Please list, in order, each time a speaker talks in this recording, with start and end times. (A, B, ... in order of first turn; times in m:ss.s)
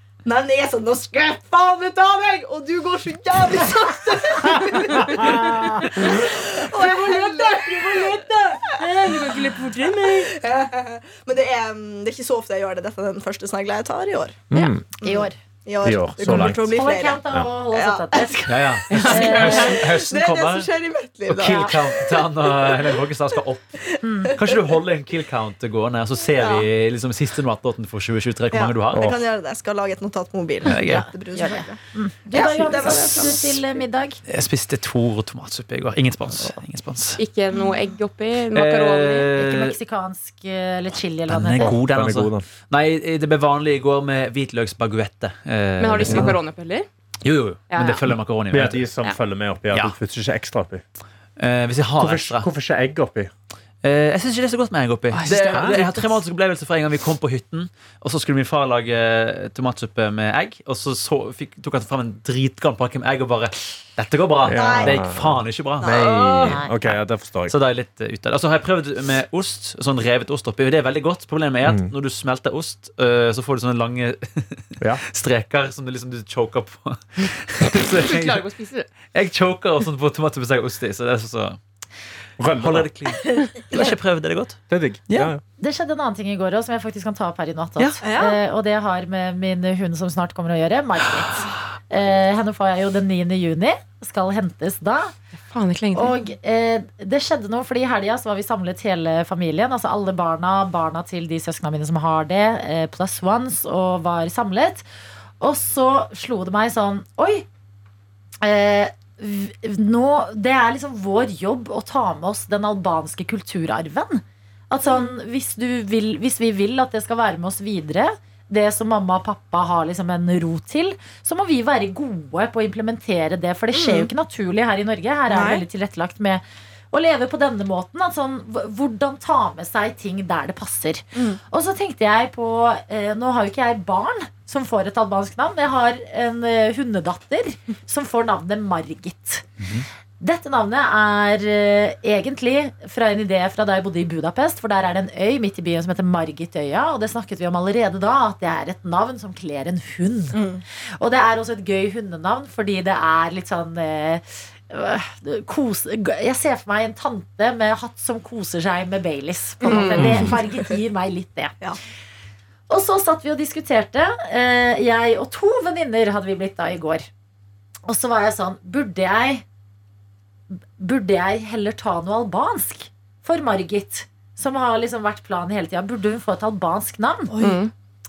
0:00.2-0:09.3 A
0:04.5-0:06.5 B
0:06.9-0:08.3 C
0:08.8-0:10.4 D
0:08.8-0:09.4 C
0:10.0-0:14.4 A
0:14.5-0:14.8 B
0:14.5-0:15.4 C
0:15.0-0:23.1 A
0:15.8-0:16.6 B
0:16.2-0:19.8 C
0:18.4-0:20.7 E
0:18.9-0:19.7 D
0:21.3-0:23.8 E
0:21.4-0:21.8 C
0:23.9-0:24.8 A
0:24.0-0:24.4 C
0:24.4-0:29.2 E
0:26.4-0:26.7 A
0:28.5-0:33.6 A
0:30.6-0:31.1 E
0:30.6-0:34.2 C
0:34.3-0:37.2 E
0:37.2-0:39.3 D
0:38.5-0:39.8 E
0:39.3-0:41.8 C
0:41.3-0:46.4 E
0:41.6-0:42.4 B
0:45.8-0:46.9 D
0:46.0-0:46.3 B
0:47.2-0:48.9 E
0:47.7-0:48.1 D
0:48.5-0:50.8 B
0:51.4-0:52.4 E
0:52.0-0:53.3 B
0:53.8-1:18.4 E
0:55.1-0:55.8 D
0:55.3-0:55.9 B
1:04.4-1:07.5 B
1:04.6-1:05.0 A
1:05.8-1:06.6 A
1:06.5-1:06.7 C
1:11.6-1:11.9 B
1:18.0-1:18.9 D
1:19.0-1:21.6 E
1:22.4-1:23.1 B
1:22.6-1:25.3 E
1:23.3-1:23.9 A
1:24.7-1:25.4 B
1:25.6-1:35.1 C
1:28.0-1:28.4 A
1:35.5-1:36.2 D
1:35.9-1:44.8 C
1:45.4-1:47.4 C
1:48.4-2:19.4 C
2:03.7-2:04.1 A
2:05.3-2:05.6 A
2:19.6-2:19.8 E
2:20.2-2:30.4 C
2:30.3-2:30.6 A
2:31.0-2:41.6 C
2:39.6-2:40.5 A
2:39.7-2:40.3 D
2:40.0-2:40.3 B
2:42.7-2:47.1 C
2:47.8-2:49.4 C
2:50.6-2:57.3 C
2:57.3-2:57.6 A
2:57.4-2:57.7 D